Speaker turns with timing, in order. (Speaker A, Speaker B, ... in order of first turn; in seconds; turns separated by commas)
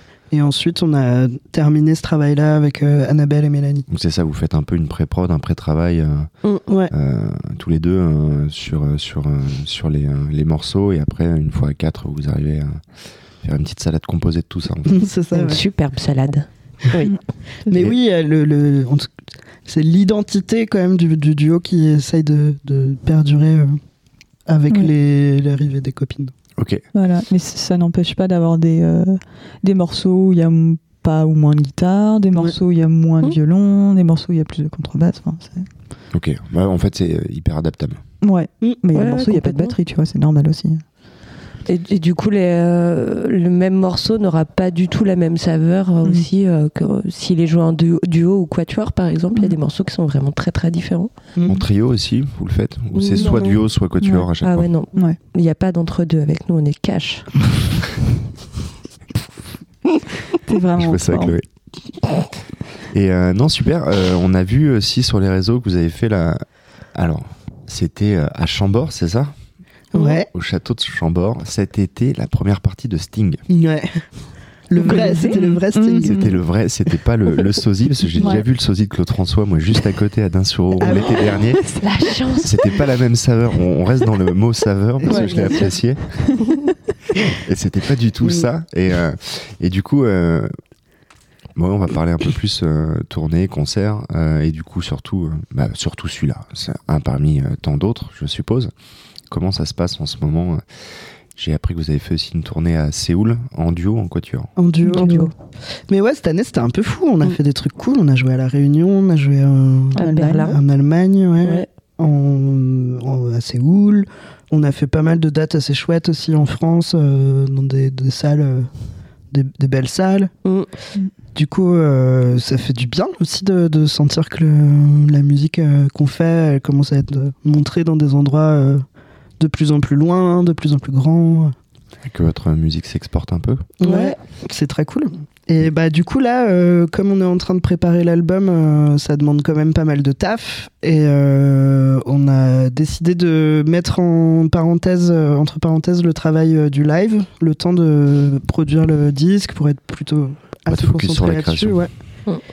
Speaker A: 0.3-3.9, Speaker B: 3.9-6.3, Speaker B: 6.9-12.7, Speaker B: 13.4-15.0, Speaker A: 14.9-15.6, Speaker C: 15.3-17.1, Speaker A: 17.7-19.1, Speaker B: 17.7-18.0, Speaker A: 19.7-23.8, Speaker A: 24.5-26.3, Speaker B: 26.6-26.8, Speaker D: 26.9-35.7, Speaker B: 36.1-38.0, Speaker D: 38.2-40.8, Speaker C: 38.9-39.8, Speaker C: 41.7-51.1, Speaker A: 51.4-51.6, Speaker B: 51.5-54.7, Speaker C: 52.9-53.7, Speaker D: 53.1-53.5, Speaker D: 54.0-54.3, Speaker C: 54.4-57.3, Speaker D: 60.4-61.4, Speaker B: 60.8-61.4, Speaker B: 62.9-66.4, Speaker B: 67.0-69.3, Speaker A: 69.9-70.3, Speaker B: 70.3-73.4, Speaker A: 73.5-73.9, Speaker A: 74.7-76.2, Speaker C: 74.8-75.4, Speaker D: 74.8-76.4, Speaker B: 76.0-81.7, Speaker D: 78.2-78.5, Speaker A: 80.8-81.4, Speaker C: 81.7-82.8, Speaker B: 82.4-86.0, Speaker A: 85.1-85.7, Speaker C: 85.1-85.7, Speaker D: 85.1-85.7, Speaker B: 87.3-90.5, Speaker A: 88.2-88.5, Speaker B: 91.6-98.7, Speaker B: 99.3-100.6, Speaker B: 101.4-104.5, Speaker A: 104.6-105.2, Speaker D: 104.8-105.3, Speaker C: 104.9-105.3, Speaker A: 105.9-118.7, Speaker C: 109.9-110.6, Speaker D: 110.0-110.6, Speaker A: 119.3-120.3, Speaker A: 121.3-128.8, Speaker A: 129.4-131.5, Speaker B: 132.1-133.7, Speaker A: 133.8-151.9, Speaker C: 133.8-134.2, Speaker B: 150.7-151.9